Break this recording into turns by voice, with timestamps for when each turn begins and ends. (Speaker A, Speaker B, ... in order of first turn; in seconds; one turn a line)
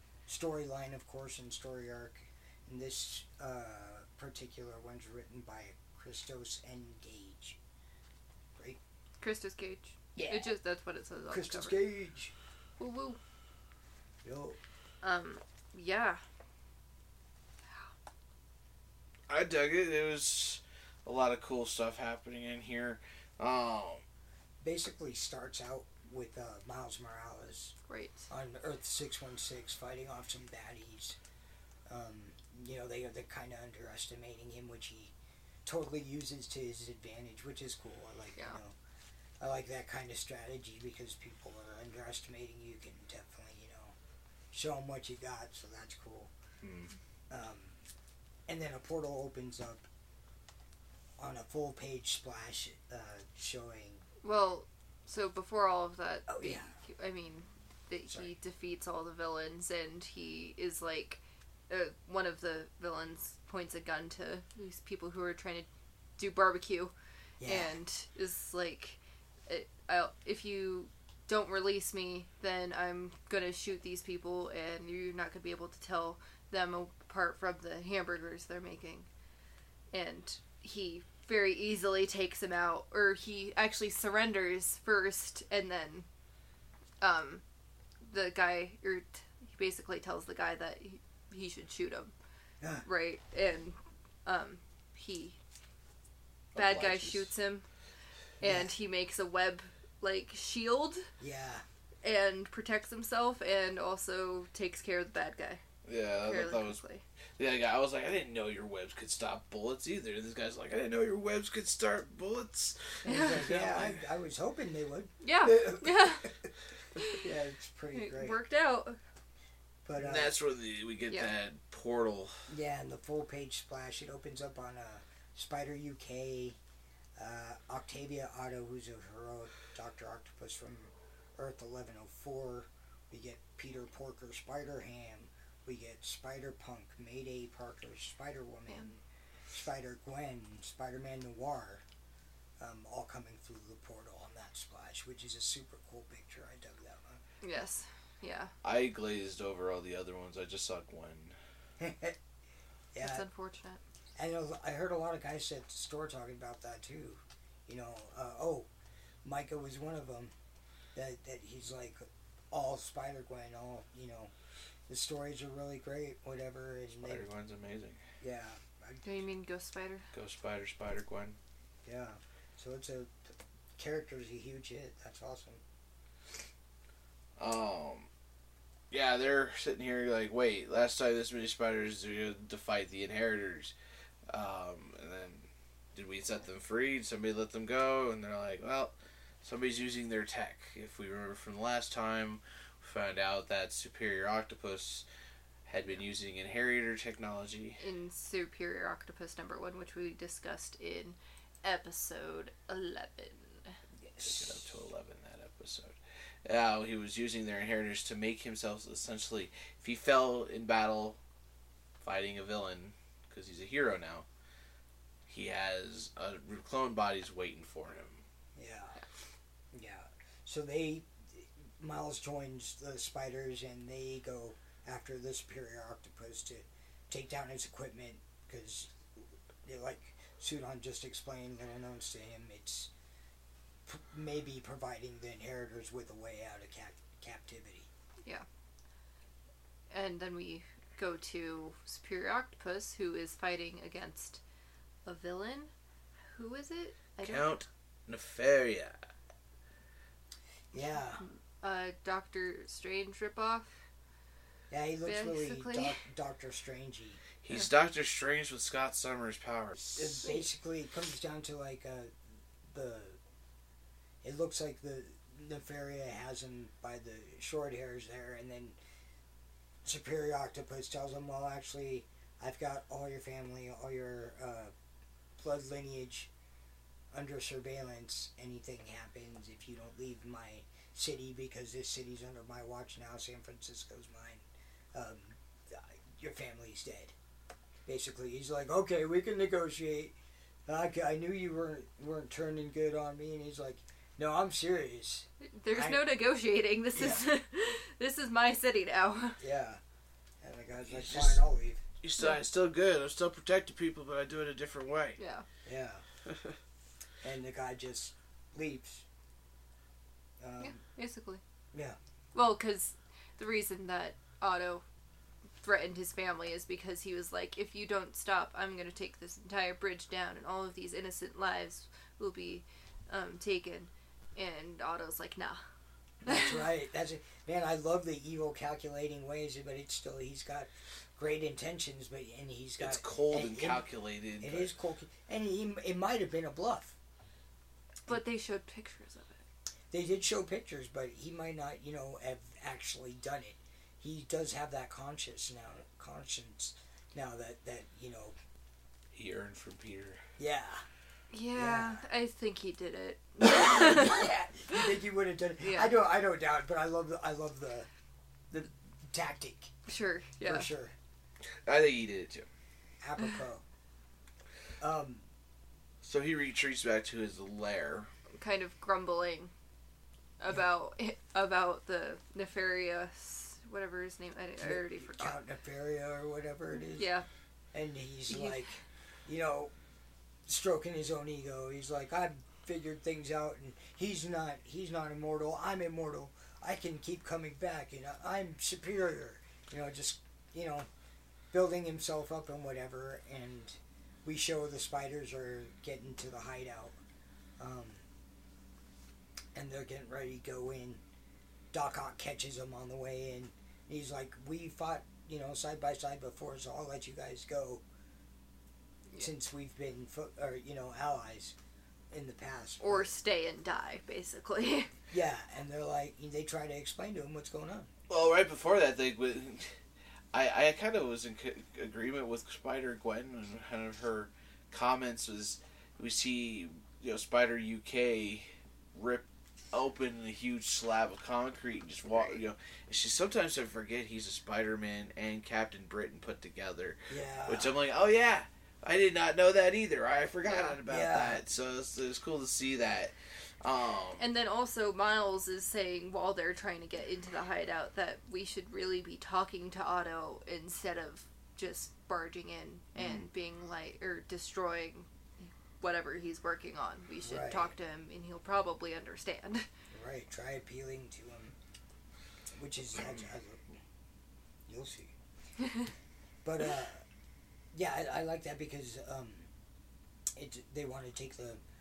Speaker A: 0.3-7.6
Speaker B: 9.2-11.8
Speaker A: 10.2-10.6
Speaker A: 11.3-12.3
Speaker B: 12.8-13.2
Speaker A: 14.2-14.6
Speaker B: 15.0-16.2
Speaker C: 19.3-24.0
Speaker A: 24.6-27.8
Speaker B: 27.9-28.2
Speaker A: 28.3-31.2
Speaker A: 31.9-35.1
Speaker A: 35.6-38.8
Speaker A: 39.4-44.0
Speaker A: 44.5-46.3
Speaker C: 46.6-46.9
Speaker A: 47.3-47.8
Speaker A: 48.5-49.8
Speaker A: 51.2-54.0
Speaker B: 54.2-66.9
Speaker A: 56.3-56.7
Speaker A: 67.4-67.8
Speaker B: 67.5-79.1
Speaker B: 79.9-86.1
Speaker B: 87.0-87.4
Speaker B: 88.0-92.1
Speaker B: 92.8-95.4
Speaker C: 96.5-97.3
Speaker B: 96.5-97.7
Speaker B: 98.4-101.1
Speaker A: 98.4-98.7
Speaker A: 101.2-101.6
Speaker B: 102.0-105.6
Speaker C: 105.8-106.8
Speaker B: 106.2-107.0
Speaker C: 107.4-114.0
Speaker A: 113.0-116.3
Speaker B: 113.1-113.5
Speaker B: 115.2-116.3
Speaker B: 117.0-117.2
Speaker A: 117.1-118.4
Speaker B: 117.9-119.0
Speaker A: 119.8-120.3
Speaker C: 120.0-122.4
Speaker A: 122.5-126.6
Speaker A: 127.2-141.8
Speaker A: 142.6-147.2
Speaker B: 147.4-148.5
Speaker C: 148.6-151.3
Speaker A: 151.8-152.2
Speaker A: 152.9-153.3
Speaker B: 153.0-153.8
Speaker A: 154.2-158.7
Speaker A: 159.2-160.3
Speaker A: 160.9-164.3
Speaker A: 164.9-167.3
Speaker C: 167.0-168.0
Speaker A: 168.2-169.1
Speaker B: 169.0-170.1
Speaker C: 170.1-171.4
Speaker A: 171.8-175.6
Speaker C: 177.4-178.1
Speaker C: 178.9-183.7
Speaker C: 184.3-195.1
Speaker C: 195.7-197.8
Speaker B: 197.8-203.8
Speaker A: 204.0-204.6
Speaker C: 204.2-211.2
Speaker C: 212.0-214.3
Speaker C: 215.3-218.2
Speaker A: 218.6-219.0
Speaker A: 219.7-232.9
Speaker A: 233.8-237.9
Speaker B: 239.9-244.4
Speaker B: 245.0-245.7
Speaker B: 246.3-247.6
Speaker C: 247.2-249.0
Speaker A: 250.7-251.2
Speaker B: 251.2-253.7
Speaker A: 254.7-257.2
Speaker B: 255.1-256.0
Speaker C: 257.4-260.2
Speaker A: 260.0-262.1
Speaker A: 262.7-263.2
Speaker A: 264.2-268.8
Speaker A: 269.8-274.7
Speaker A: 275.4-276.3
Speaker A: 277.1-287.1
Speaker A: 287.9-290.1
Speaker A: 290.7-296.0
Speaker B: 295.4-299.4
Speaker A: 296.9-297.2
Speaker A: 299.4-299.8
Speaker A: 300.4-301.8
Speaker C: 300.9-301.4
Speaker C: 302.0-305.2
Speaker B: 305.2-305.4
Speaker A: 305.6-306.0
Speaker A: 307.2-309.0
Speaker A: 310.4-310.8
Speaker B: 310.6-311.4
Speaker A: 311.7-312.0
Speaker B: 312.3-314.9
Speaker B: 315.6-325.6
Speaker A: 326.2-333.9
Speaker B: 326.2-326.6
Speaker C: 332.8-334.7
Speaker A: 334.4-337.0
Speaker B: 338.1-339.4
Speaker A: 339.9-348.4
Speaker C: 349.1-350.2
Speaker A: 350.4-350.9
Speaker B: 351.3-354.8
Speaker A: 351.5-352.0
Speaker A: 353.4-357.9
Speaker B: 355.6-355.9
Speaker A: 358.5-359.7
Speaker B: 359.9-360.7
Speaker A: 360.4-360.9
Speaker C: 361.6-362.5
Speaker A: 363.0-363.6
Speaker A: 364.8-365.2
Speaker C: 366.0-368.1
Speaker B: 368.3-369.5
Speaker B: 370.4-375.4
Speaker A: 374.6-377.1
Speaker B: 376.9-377.3
Speaker A: 377.7-379.7
Speaker B: 378.3-378.7
Speaker A: 380.4-390.9
Speaker A: 391.5-396.9
Speaker A: 397.6-398.0
Speaker A: 399.5-401.0
Speaker A: 401.7-407.8
Speaker A: 409.1-411.6
Speaker A: 412.1-413.1
Speaker B: 412.8-414.9
Speaker A: 415.1-417.9
Speaker C: 418.1-419.8
Speaker C: 420.3-444.2
Speaker A: 437.1-437.8
Speaker B: 440.4-440.8
Speaker A: 440.9-441.4
Speaker B: 444.2-459.6
Speaker A: 457.2-457.7
Speaker A: 459.9-461.6
Speaker A: 462.5-463.7
Speaker A: 464.7-465.1
Speaker A: 466.4-467.0
Speaker A: 467.7-469.5
Speaker A: 470.4-471.6